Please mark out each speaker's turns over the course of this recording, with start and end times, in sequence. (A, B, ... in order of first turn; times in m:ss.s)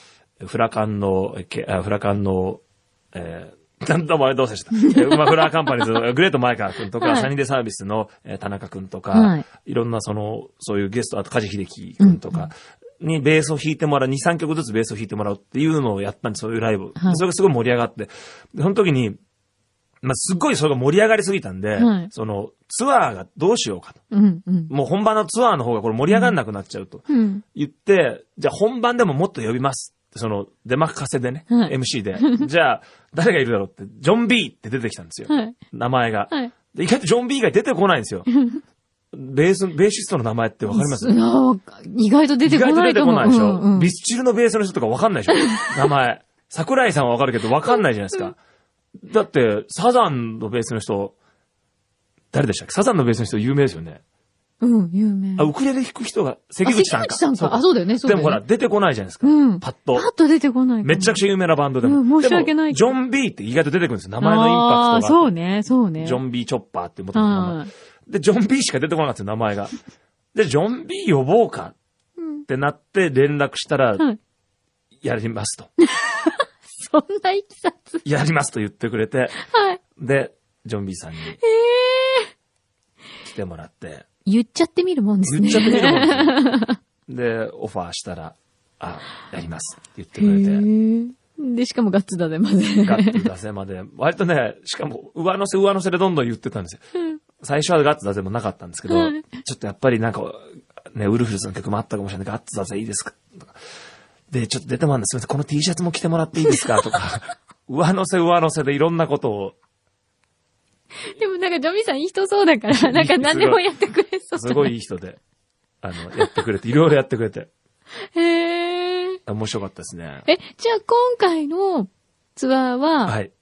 0:00.4-0:02.6 A
0:03.1-0:19.2 A
0:04.7-0:05.5 B
0:07.0-0:07.3 B
0:09.1-0:09.5 B
0:12.0-0:12.5 B
0:20.0-0:24.0 A
0:21.8-0:22.1 B
0:24.1-0:24.7 B
0:24.7-0:38.3 A
0:26.1-0:26.4 B
0:27.1-0:27.4 B
0:31.5-0:32.5 B
0:35.3-0:35.6 B
0:38.4-0:38.6 B
0:39.1-0:41.2 A
0:40.7-0:43.9 B
0:42.4-0:48.4 A
0:45.3-0:45.8 B
0:49.0-0:51.1 A
0:52.3-0:54.0 A
0:54.6-0:55.5 B
0:55.4-1:00.1 A
0:56.6-0:58.4 B
0:59.2-1:01.2 B
1:00.8-1:05.3 A
1:01.8-1:02.9 B
1:04.2-1:06.2 B
1:06.0-1:09.7 A
1:07.1-1:07.7 B
1:10.3-1:11.7 A
1:12.2-1:12.4 B
1:12.4-1:14.0 A
1:15.0-1:15.7 A
1:15.8-1:18.0 B
1:18.0-1:19.4 A
1:19.4-1:19.8 B
1:20.0-1:21.4 A
1:21.4-1:22.3 B
1:23.2-1:24.0 A
1:24.2-1:26.8 B
1:25.2-1:26.4 A
1:27.1-1:30.6 A
1:30.2-1:33.3 B
1:32.8-1:36.8 A
1:37.4-1:43.5 A
1:38.9-1:39.3 B
1:44.3-1:49.6 A
1:51.0-1:54.7 B
1:52.7-1:53.6 A
1:54.4-1:55.2 A
1:55.8-1:57.5 A
1:58.1-1:59.2 B
1:59.3-2:00.2 A
2:00.3-2:03.2 B
2:03.0-2:03.3 A